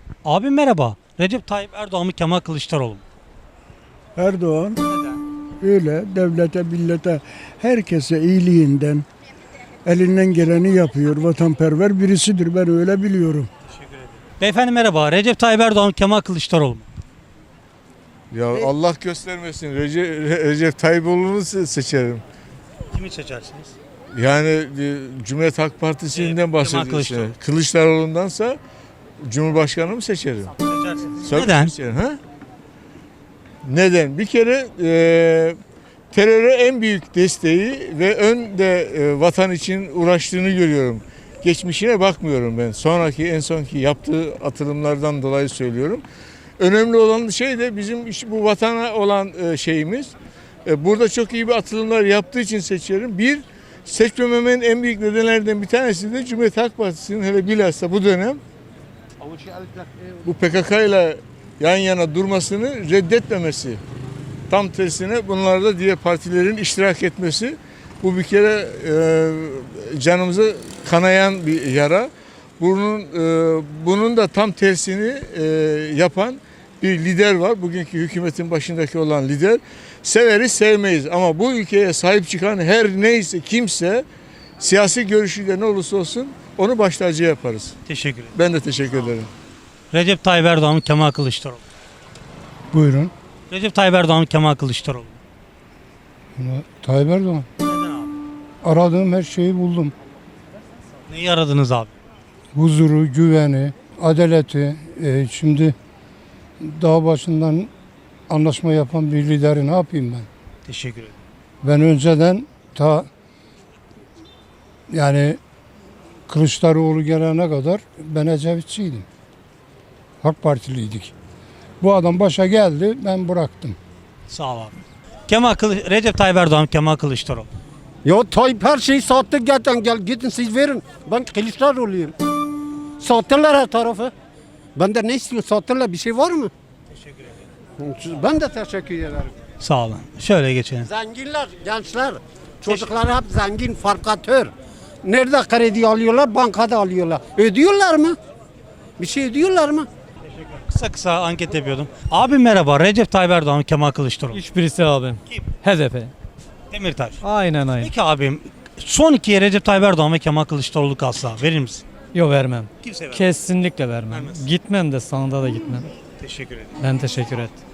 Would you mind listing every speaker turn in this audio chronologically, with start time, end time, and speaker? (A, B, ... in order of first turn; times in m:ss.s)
0:00.2-0:03.0 A
0:04.2-0:04.8 B
0:04.9-0:05.2 A
0:05.6-0:09.0 B
0:09.9-0:13.5 B
0:13.7-0:16.9 A
0:18.3-0:22.2 C
0:22.9-0:23.7 A
0:24.1-0:28.6 C
0:26.2-0:27.3 A
0:29.2-0:30.5 C
0:30.6-0:31.7 A
0:31.2-0:32.2 C
0:33.6-0:35.6 C
0:36.1-0:46.0 C
0:46.6-0:58.4 C
1:00.2-1:03.8 C
1:04.5-1:24.0 C
1:24.6-1:27.8 C
1:27.9-1:28.3 A
1:28.3-1:29.3 C
1:29.9-1:31.6 A
1:32.7-1:33.1 D
1:33.5-1:35.2 A
1:36.4-1:37.4 D
1:37.6-1:38.1 A
1:38.6-1:39.9 D
1:41.1-1:41.9 A
1:42.6-1:45.8 D
1:46.6-1:47.7 D
1:48.3-1:50.3 D
1:50.6-1:51.2 A
1:51.6-1:53.1 D
1:54.9-1:55.4 D
1:56.3-1:59.0 D
2:00.2-2:01.1 D
2:01.8-2:03.8 D
2:04.3-2:04.7 A
2:05.3-2:07.5 A
2:08.0-2:12.1 E
2:13.0-2:14.1 E
2:14.8-2:16.5 E
2:17.8-2:19.2 E
2:19.6-2:20.9 A
2:20.9-2:24.5 E
2:25.0-2:28.2 E
2:29.0-2:29.9 E
2:30.6-2:34.4 A
2:34.4-2:36.1 F
2:36.7-2:41.8 A
2:37.2-2:37.9 F
2:42.1-2:45.9 F
2:42.8-2:43.2 A
2:44.1-2:44.4 A
2:46.2-2:46.7 A
2:46.8-2:47.5 F